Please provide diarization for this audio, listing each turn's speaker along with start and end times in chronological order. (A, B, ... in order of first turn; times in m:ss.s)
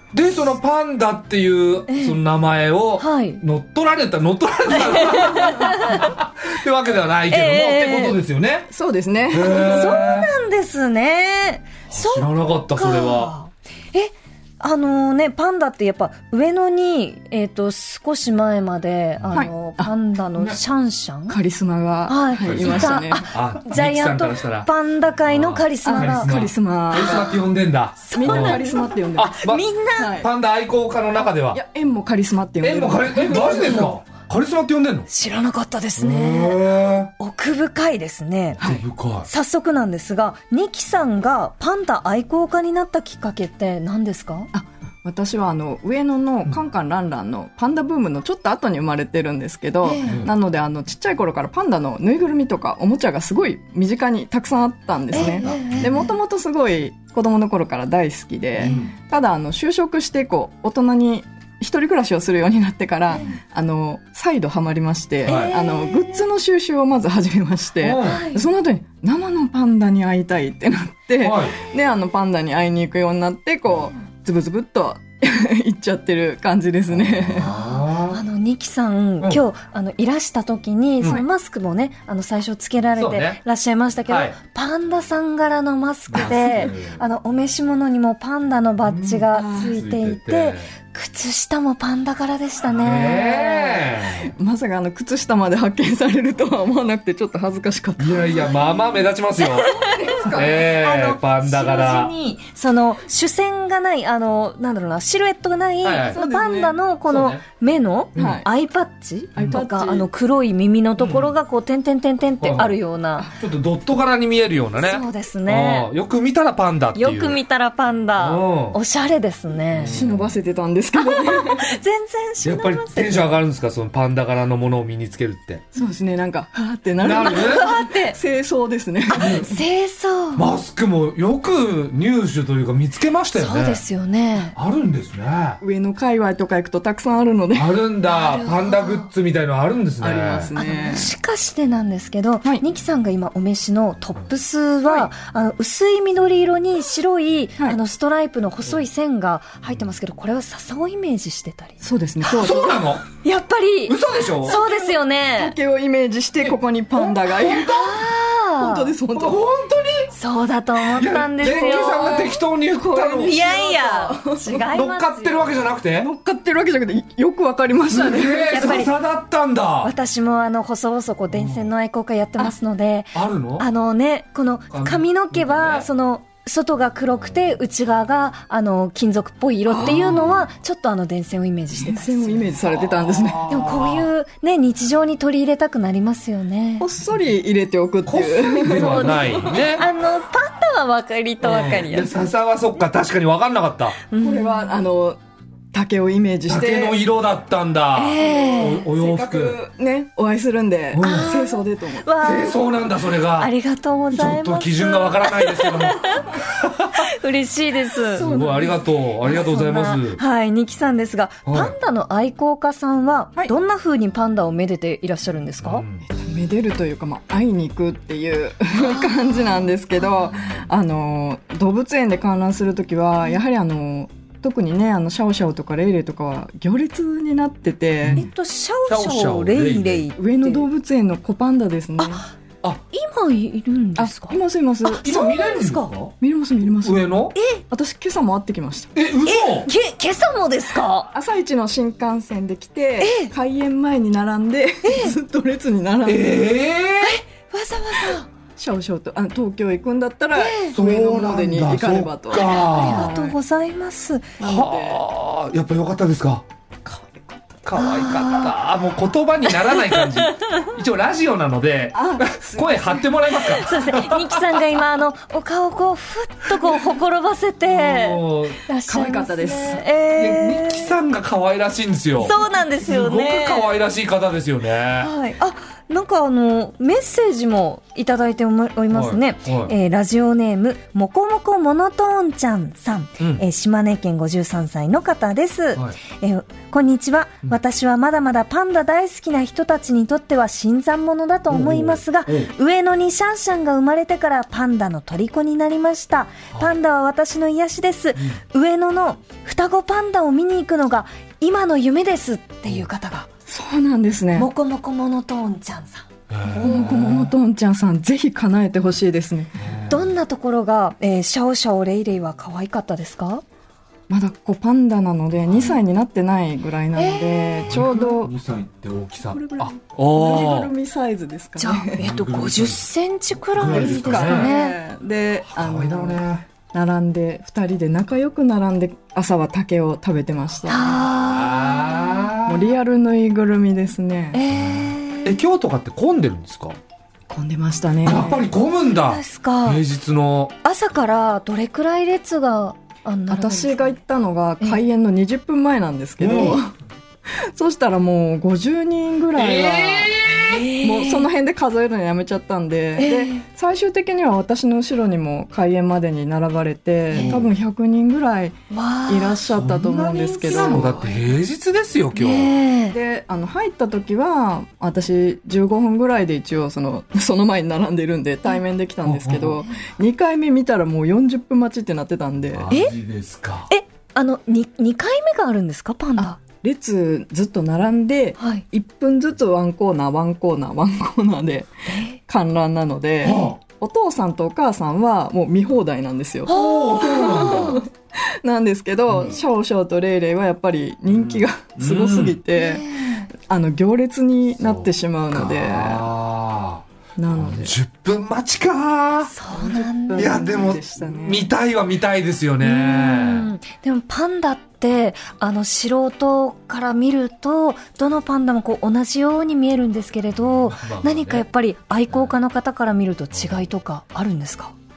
0:00.1-0:08.7 A
0:01.9-0:02.2 B
0:03.0-0:03.4 B
0:04.7-0:06.1 B
0:07.3-0:08.2 B
0:08.7-0:10.1 C
0:09.3-0:10.3 A
0:09.5-0:21.4 B
0:11.9-0:13.3 A
0:19.2-0:19.5 A
0:19.3-0:19.9 C
0:21.3-0:23.3 C
0:22.1-0:26.3 B
0:22.4-0:24.7 A
0:25.3-0:28.6 A
0:25.8-0:27.3 C
0:26.9-0:27.4 B
0:28.0-0:30.1 B
0:28.1-0:29.4 C
0:29.2-0:29.6 A
0:30.0-0:30.3 C
0:30.2-0:31.6 A
0:31.2-0:33.9 C
0:32.6-0:35.1 A
0:33.3-0:33.9 B
0:35.1-0:36.7 B
0:36.0-0:37.1 A
0:37.2-0:38.6 B
0:38.6-0:39.3 A
0:39.3-0:44.5 B
0:44.5-1:17.5 C
0:49.8-0:50.2 B
0:50.1-0:50.3 A
0:55.1-0:56.1 B
0:55.1-0:56.0 A
0:58.6-0:58.9 A
1:05.3-1:05.5 A
1:05.3-1:06.2 B
1:07.8-1:08.2 A
1:08.0-1:08.4 B
1:11.2-1:11.6 A
1:16.9-1:18.2 A
1:17.4-1:33.9 B
1:23.0-1:23.4 A
1:24.1-1:24.4 A
1:26.1-1:27.0 A
1:26.2-1:26.7 C
1:28.8-1:30.7 A
1:29.3-1:29.8 C
1:32.8-1:34.3 A
1:34.3-1:38.6 C
1:38.0-1:42.1 A
1:39.4-1:53.3 B
1:39.8-1:40.6 C
1:45.8-1:46.2 A
1:46.1-1:46.8 C
1:47.1-1:47.4 A
1:48.2-1:48.4 A
1:48.2-1:48.5 C
1:49.4-1:50.1 C
1:51.0-1:51.3 A
1:52.4-1:52.8 A
1:53.3-1:57.4 A
1:54.8-1:55.9 B
1:57.0-2:00.0 B
1:58.2-1:58.8 A
1:59.7-2:00.4 A
1:59.9-2:01.7 C
2:01.0-2:03.3 B
2:02.4-2:05.6 A
2:05.7-2:09.6 C
2:07.0-2:07.7 A
2:07.2-2:08.2 B
2:09.1-2:10.5 B
2:09.1-2:09.5 A
2:10.4-2:13.8 A
2:13.4-2:14.6 B
2:14.6-2:15.6 A
2:15.6-2:17.8 C
2:17.6-2:20.5 A
2:18.1-2:19.1 B
2:20.0-2:21.1 C
2:20.6-2:35.5 B
2:24.8-2:25.1 C
2:31.8-2:33.0 C
2:32.4-2:33.0 A
2:33.9-2:34.6 A
2:34.4-2:37.9 C
2:36.4-2:38.0 A
2:37.4-2:38.9 B
2:38.6-2:39.4 C
2:39.1-2:40.1 A
2:40.1-2:42.3 B
2:41.0-2:43.4 A
2:41.4-2:44.7 C
2:43.2-2:45.7 B
2:44.7-2:46.1 A
2:45.9-2:48.7 C
2:47.9-2:49.9 A
2:48.5-2:48.9 B
2:49.8-3:02.5 B
2:51.3-2:51.7 A
2:53.1-2:53.7 A
2:54.7-2:55.9 A
2:59.7-3:00.0 C
2:59.8-3:00.4 A
3:01.7-3:03.5 C
3:02.6-3:04.1 A
3:03.5-3:06.9 B
3:06.8-3:09.8 C
3:08.1-3:09.8 A
3:08.6-3:12.3 B
3:11.4-3:14.0 A
3:14.1-3:14.7 B
3:14.2-3:15.2 C
3:15.7-3:17.0 C
3:16.5-3:19.6 A
3:18.0-3:18.8 B
3:18.2-3:22.1 C
3:20.9-3:21.3 A
3:21.0-3:22.6 B
3:22.2-3:23.5 A
3:23.4-3:26.3 B
3:24.1-3:27.0 A
3:27.0-3:28.3 B
3:28.2-3:28.8 C
3:28.2-3:30.2 A
3:29.2-3:35.8 B
3:31.5-3:31.7 A
3:35.6-3:36.0 A
3:36.1-3:48.2 C
3:38.8-3:39.4 B
3:48.0-3:48.3 A
3:48.1-3:50.7 B
3:48.9-3:50.1 A
3:50.2-3:52.2 C
3:52.9-3:55.9 B
3:54.0-3:55.1 C
3:55.0-3:56.2 A
3:56.2-3:57.0 C
3:56.8-3:57.4 A
3:57.4-3:57.6 B
3:57.7-3:59.0 C
3:59.0-3:59.7 A
3:59.2-4:01.1 B
4:01.1-4:06.5 C
4:03.0-4:03.3 B
4:04.8-4:05.2 B
4:06.0-4:07.2 A
4:07.0-4:08.3 B
4:08.6-4:13.4 C
4:10.3-4:10.8 B
4:10.7-4:13.1 A
4:12.6-4:14.4 B
4:14.4-4:15.0 C
4:14.4-4:16.4 A
4:16.8-4:17.6 C
4:17.6-4:24.6 A
4:17.8-4:18.6 B
4:19.6-4:20.7 B
4:21.9-4:23.2 C
4:23.4-4:30.9 B
4:27.7-4:28.6 A
4:28.9-4:29.8 C
4:30.2-4:35.1 A
4:32.2-4:33.7 B
4:35.0-5:03.3 B
4:38.9-4:39.7 A
4:51.5-4:52.5 A
5:03.5-5:04.5 C
5:04.4-5:07.0 B
5:06.3-5:07.3 A
5:06.6-5:09.6 C
5:09.6-5:10.1 A
5:09.9-5:13.4 B
5:14.1-5:18.3 C
5:15.5-5:15.8 A
5:17.0-5:17.7 B
5:17.7-5:20.7 A
5:19.3-5:22.0 C
5:21.6-5:24.8 B
5:22.0-5:22.9 A
5:23.5-5:24.5 A
5:23.6-5:31.1 C
5:25.5-5:26.5 A
5:30.7-5:32.3 B
5:31.2-5:32.7 A
5:32.5-5:34.4 C
5:34.3-5:35.4 B
5:34.5-5:36.8 A
5:37.3-5:38.5 C
5:38.0-5:40.5 A
5:39.0-5:39.8 B
5:40.6-5:44.0 B
5:43.3-5:46.7 C
5:46.2-5:46.6 A
5:47.3-5:50.2 C
5:49.4-5:50.6 A
5:50.3-5:51.3 B
5:50.8-6:01.0 C
5:53.0-5:53.4 B
5:57.1-5:57.4 B
5:57.2-5:57.5 A
5:58.7-5:59.4 B
5:59.5-6:02.6 A
6:00.5-6:01.1 B
6:02.2-6:03.0 B
6:02.9-6:12.7 C
6:09.0-6:09.6 A
6:12.5-6:13.7 A
6:13.7-6:16.4 B
6:16.2-6:36.1 C
6:18.4-6:18.6 B
6:21.9-6:22.2 B
6:23.2-6:23.6 A
6:26.5-6:27.8 B
6:26.5-6:27.8 A
6:29.1-6:29.4 A
6:31.1-6:32.4 A
6:32.5-6:33.3 B
6:34.6-6:39.3 A
6:37.2-6:37.8 C
6:39.3-6:40.6 B
6:39.5-6:41.5 C
6:40.2-6:43.5 A
6:42.6-6:54.7 B
6:50.5-6:51.4 A
6:53.3-6:53.6 A